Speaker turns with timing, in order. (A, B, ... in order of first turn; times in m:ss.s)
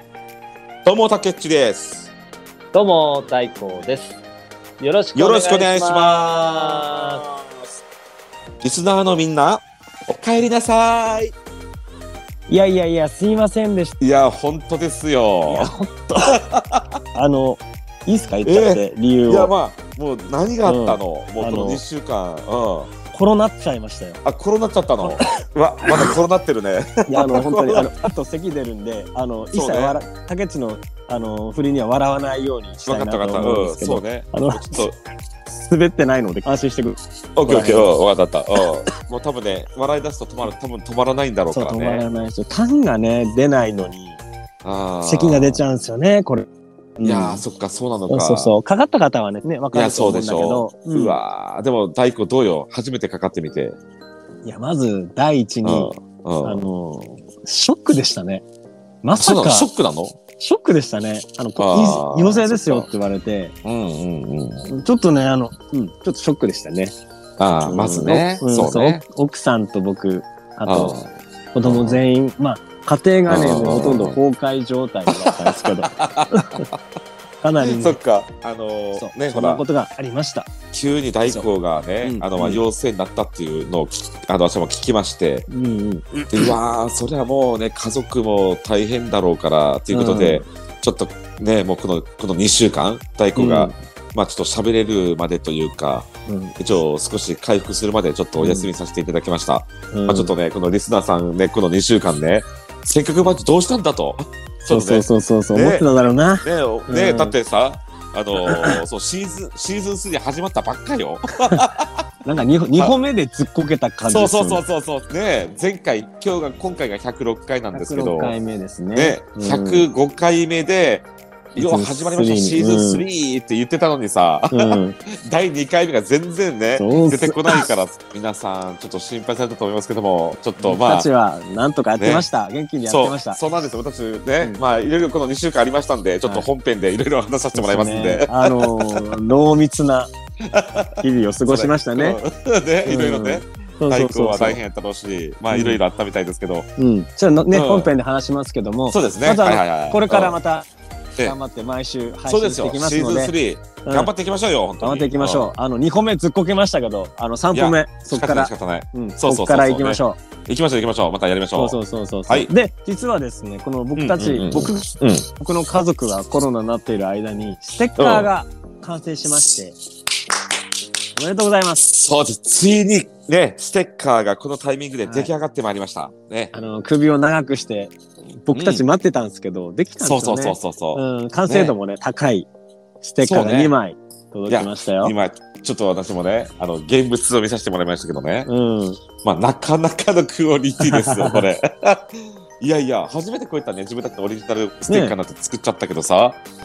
0:00.8-0:02.1 A
0:02.7-0:04.2 B
0:04.8-0:07.2 B
0:05.1-0:07.4 A
0:08.6-0:11.3 A
0:12.5-0:14.0 C
0:14.0-0:15.7 A
0:15.4-0:16.4 C
0:16.3-0:17.0 A
0:17.1-0:19.5 C
0:18.4-0:22.9 A
0:20.6-0:21.8 C
0:23.1-0:24.2 C
0:24.2-0:27.9 A
0:25.0-0:26.1 C
0:27.1-0:34.8 C
0:29.5-0:30.0 A
0:32.9-0:35.0 A
0:35.5-0:37.9 C
0:37.4-0:42.0 A
0:41.5-0:44.2 C
0:44.6-0:45.6 A
0:45.0-0:46.4 C
0:47.0-0:47.4 C
0:47.0-0:48.5 A
0:48.1-0:51.2 C
0:49.7-0:53.8 A
0:54.4-0:58.4 C
0:55.6-0:56.6 A
0:59.0-0:59.7 C
0:59.2-1:00.2 A
1:00.4-1:03.5 C
1:01.6-1:02.9 A
1:03.6-1:04.7 A
1:04.6-1:06.9 C
1:07.4-1:09.0 A
1:07.6-1:11.0 C
1:10.6-1:11.1 A
1:11.5-1:16.7 C
1:11.6-1:12.0 A
1:13.3-1:14.2 A
1:15.1-1:16.8 A
1:17.4-1:18.0 C
1:17.6-1:19.6 A
1:19.0-1:20.5 C
1:20.7-1:25.4 A
1:22.0-1:22.6 C
1:25.5-1:26.5 C
1:26.2-1:45.8 A
1:29.9-1:30.4 C
1:33.4-1:33.7 C
1:36.3-1:36.5 C
1:38.4-1:38.7 C
1:39.9-1:40.3 C
1:44.7-1:47.4 C
1:46.4-1:52.9 A
1:48.4-1:48.8 C
1:52.2-1:54.6 C
1:54.1-1:58.3 A
1:57.7-1:59.8 C
1:58.9-2:11.1 A
2:01.6-2:03.0 C
2:04.5-2:05.0 C
2:06.8-2:07.6 C
2:10.6-2:13.4 C
2:12.0-2:12.2 A
2:12.8-2:19.2 A
2:17.5-2:20.1 C
2:20.4-2:26.7 A
2:21.0-2:22.2 C
2:22.8-2:24.6 C
2:25.5-2:25.8 C
2:26.8-2:30.7 C
2:27.5-2:27.9 A
2:28.9-2:30.4 A
2:31.2-2:34.1 C
2:32.3-2:35.5 A
2:34.8-2:40.2 C
2:37.5-2:42.5 A
2:41.5-2:49.8 C
2:44.0-2:45.3 A
2:48.0-2:48.3 A
2:51.2-2:51.9 C
2:51.9-2:56.5 A
2:55.0-2:55.3 C
2:56.5-3:02.5 C
2:58.5-2:58.8 A
3:00.0-3:01.7 A
3:03.0-3:05.1 C
3:03.2-3:03.7 A
3:04.5-3:08.5 A
3:08.4-3:09.0 C
3:09.2-3:16.4 A
3:10.8-3:11.5 C
3:14.9-3:15.2 C